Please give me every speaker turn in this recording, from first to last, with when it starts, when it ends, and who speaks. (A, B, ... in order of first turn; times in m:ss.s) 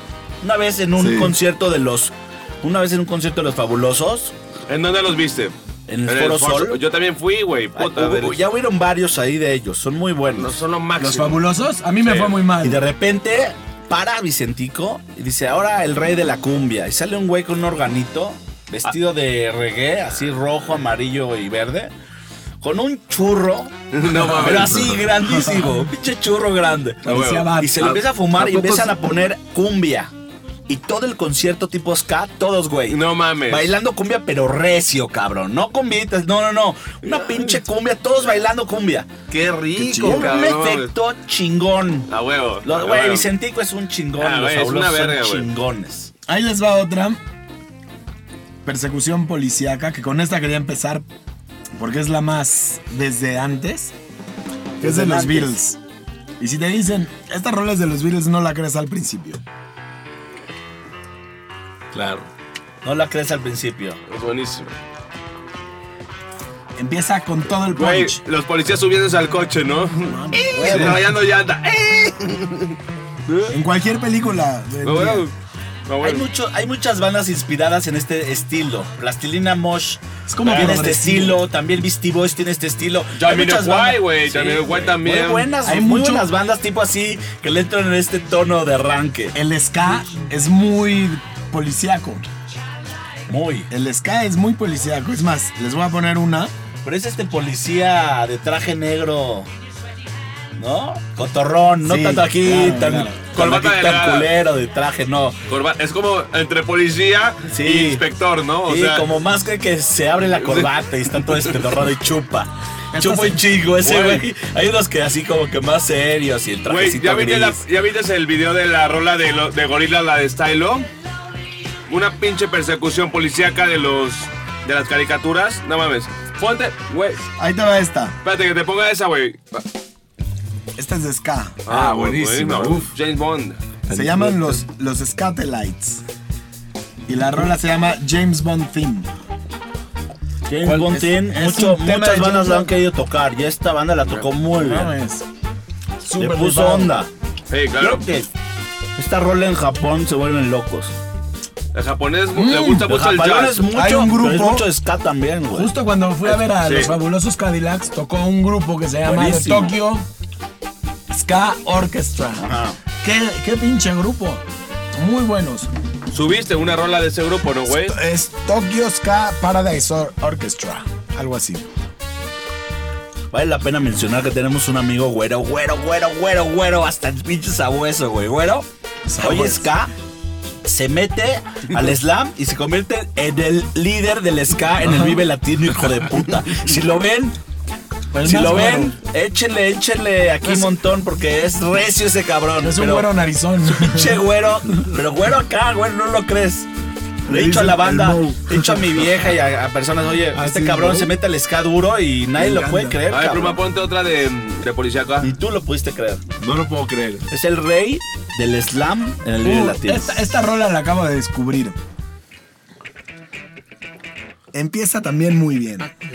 0:00.4-0:04.3 A
0:01.0-0:01.4 B
0:04.7-0:05.5 C
0:05.9-0:06.8 A
0:06.1-0:08.4 C
0:07.8-0:10.6 A
0:10.4-0:11.4 C
0:11.0-0:12.8 D
0:12.0-0:12.4 C
0:12.6-0:21.9 A
0:22.6-0:30.1 A
0:23.9-0:24.9 C
0:24.3-0:25.0 B
0:25.2-0:25.7 D
0:27.0-0:27.9 D
0:27.1-0:27.5 C
0:27.8-0:29.0 B
0:30.7-0:39.1 A
0:32.9-0:33.7 C
0:39.3-0:40.9 C
0:39.7-0:40.3 D
0:40.0-0:42.1 A
0:42.1-0:43.3 C
0:42.6-0:46.1 A
0:44.2-0:45.5 C
0:46.3-0:47.2 D
0:48.6-0:51.0 D
0:51.8-0:53.9 D
0:54.8-0:55.6 A
0:54.8-0:55.8 D
0:56.4-0:59.4 D
1:01.9-1:02.3 C
1:02.8-1:04.0 A
1:04.1-1:04.8 C
1:06.8-1:08.2 D
1:07.7-1:12.8 C
1:10.0-1:11.1 D
1:13.3-1:13.6 C
1:13.5-1:15.3 D
1:14.8-1:15.3 C
1:15.9-1:16.3 C
1:16.0-1:29.4 A
1:20.3-1:21.4 D
1:20.5-1:20.8 C
1:23.2-1:25.5 C
1:25.6-1:26.3 D
1:29.3-1:32.2 D
1:33.3-1:33.7 A
1:33.7-1:36.5 D
1:36.8-1:39.5 A
1:40.6-1:45.4 A
1:41.8-1:43.2 D
1:43.4-1:44.3 C
1:45.5-1:49.1 C
1:47.5-1:48.0 A
1:48.7-1:57.6 A
1:50.4-1:50.7 C
1:52.9-1:53.4 D
1:53.8-1:54.3 C
1:56.7-2:00.9 C
2:01.9-2:07.2 C
2:07.4-2:08.2 D
2:08.2-2:09.6 C
2:10.8-2:11.6 D
2:11.7-2:13.6 C
2:11.7-2:12.9 B
2:13.9-2:14.6 B
2:13.9-2:16.0 D
2:17.1-2:19.1 D
2:20.5-2:24.9 A
2:20.6-2:22.8 D
2:24.6-2:25.2 D
2:26.0-2:27.0 D
2:26.2-2:27.1 A
2:27.5-2:28.0 C
2:27.8-2:28.3 A
2:29.0-2:30.9 A
2:31.7-2:33.7 C
2:32.3-2:32.9 D
2:32.9-2:35.7 A
2:33.7-2:34.7 D
2:35.5-2:40.1 D
2:36.3-2:37.0 C
2:39.1-2:39.7 A
2:41.1-2:42.5 D
2:42.4-2:42.8 A
2:43.0-2:44.4 D
2:44.9-2:45.7 D
2:46.1-2:48.0 C
2:47.7-2:51.7 D
2:53.3-2:58.7 A
2:59.1-2:59.7 D
2:59.2-2:59.9 A
3:00.6-3:07.4 A
3:04.8-3:05.2 D
3:08.1-3:09.0 D
3:08.2-3:13.1 A
3:12.6-3:14.2 D
3:13.6-3:16.7 A
3:17.3-3:23.6 A
3:17.3-3:18.5 D
3:17.3-3:18.6 B
3:20.4-3:21.1 D
3:20.4-3:21.0 B
3:22.4-3:23.0 D
3:23.1-3:25.3 C
3:25.2-3:26.2 A
3:26.4-3:27.3 B
3:27.3-3:30.2 A
3:29.4-3:31.8 D
3:34.5-3:35.9 D